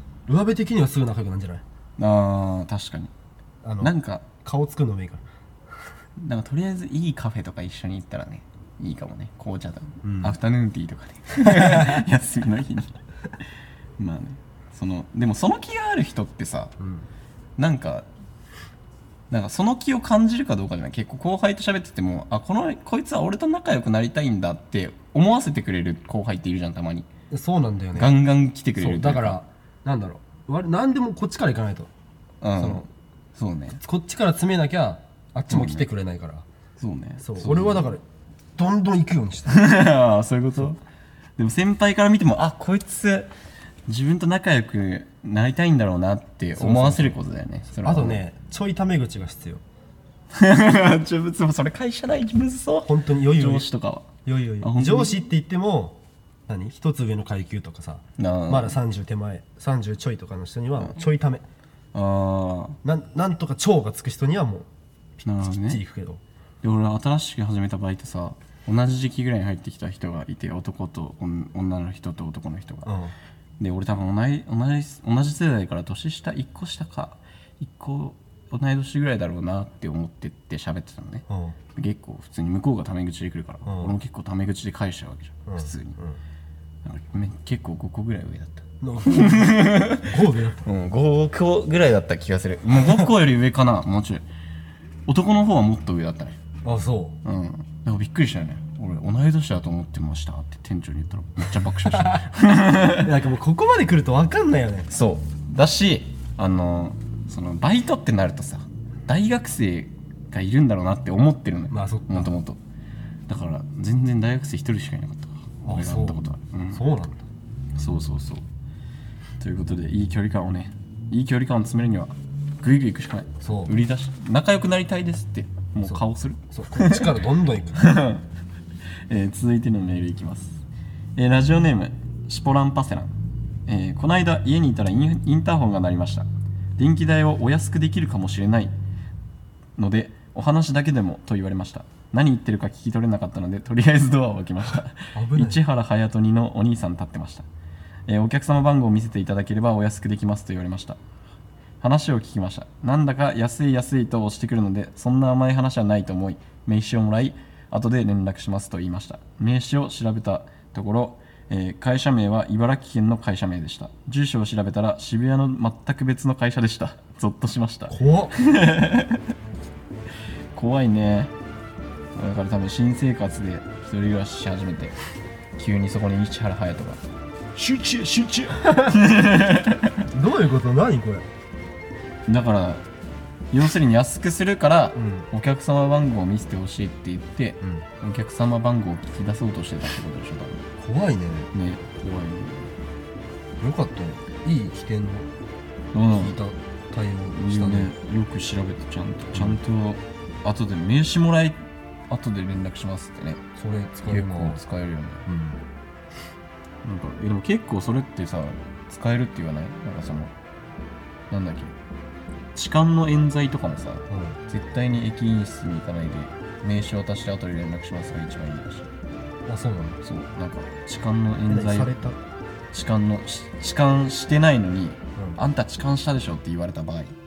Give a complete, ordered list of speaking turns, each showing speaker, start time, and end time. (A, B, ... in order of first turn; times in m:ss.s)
0:00.3-0:01.6 A
0:02.0-0:03.1 B
0:03.6-0:05.2 A
0:03.8-0:04.3 B
0:06.2-0:13.0 B
0:10.0-0:10.4 A
0:11.5-0:12.0 A
0:14.0-0:16.8 B
0:16.8-0:17.1 A
0:17.6-0:18.1 B
0:19.3-0:27.1 B
0:27.3-0:28.2 A
0:28.0-0:29.4 B
0:28.8-0:31.9 A
0:32.4-0:33.8 B
0:32.6-0:32.9 A
0:33.8-0:36.5 A
0:35.5-0:35.9 B
0:36.8-0:37.9 B
0:37.2-0:38.0 A
0:38.6-0:39.6 A
0:39.5-0:40.8 B
0:41.4-0:43.3 B
0:43.9-0:48.2 B
0:46.6-0:47.2 A
0:47.8-0:49.6 A
0:50.3-0:55.2 B
0:52.9-0:53.7 A
0:54.2-1:01.4 A
0:58.2-0:58.8 B
1:01.9-1:02.8 B
1:02.8-1:04.7 A
1:05.2-1:05.8 B
1:05.6-1:06.2 A
1:06.6-1:13.0 B
1:12.9-1:13.1 A
1:13.6-1:26.0 B
1:21.3-1:21.6 A
1:23.6-1:24.0 A
1:25.5-1:26.2 A
1:26.8-1:34.2 B
1:28.8-1:30.6 A
1:35.1-1:36.4 B
1:36.6-1:37.2 A
1:37.2-1:43.1 B
1:41.8-1:42.2 A
1:43.0-1:44.9 A
1:44.9-1:52.6 B
1:51.7-1:52.3 A
1:53.3-1:56.8 B
1:55.7-1:56.2 A
1:56.7-1:57.2 A
1:57.8-1:58.4 B
1:59.4-2:07.1 B
2:03.4-2:03.7 A
2:05.8-2:07.8 A
2:07.8-2:08.2 B
2:09.1-2:10.6 B
2:11.2-2:13.1 B
2:13.7-2:16.3 B
2:16.8-2:18.8 B
2:19.8-2:27.5 B
2:25.2-2:25.6 A
2:28.1-2:31.0 B
2:31.8-2:49.2 B
2:47.9-2:48.4 A
2:50.5-2:51.3 B
2:52.2-2:55.0 B
2:55.6-2:57.0 B
2:57.6-2:59.0 A
2:57.8-3:00.0 B
3:00.1-3:01.3 A
3:02.3-3:02.8 B
3:03.5-3:10.6 B
3:05.0-3:05.3 A
3:10.8-3:11.5 A
3:11.5-3:12.7 B
3:13.6-3:15.3 A
3:15.9-3:16.4 B
3:16.1-3:17.9 A
3:17.3-3:21.6 B
3:19.3-3:19.6 A
3:22.1-3:23.4 B
3:23.6-3:24.6 A
3:24.0-3:25.3 B
3:25.3-3:25.6 A
3:26.8-3:30.3 B
3:31.3-3:31.8 B
3:32.6-3:38.9 B
3:34.1-3:34.4 A
3:39.5-3:40.0 A
3:40.0-3:42.0 B
3:41.5-3:42.2 A
3:42.7-3:47.2 B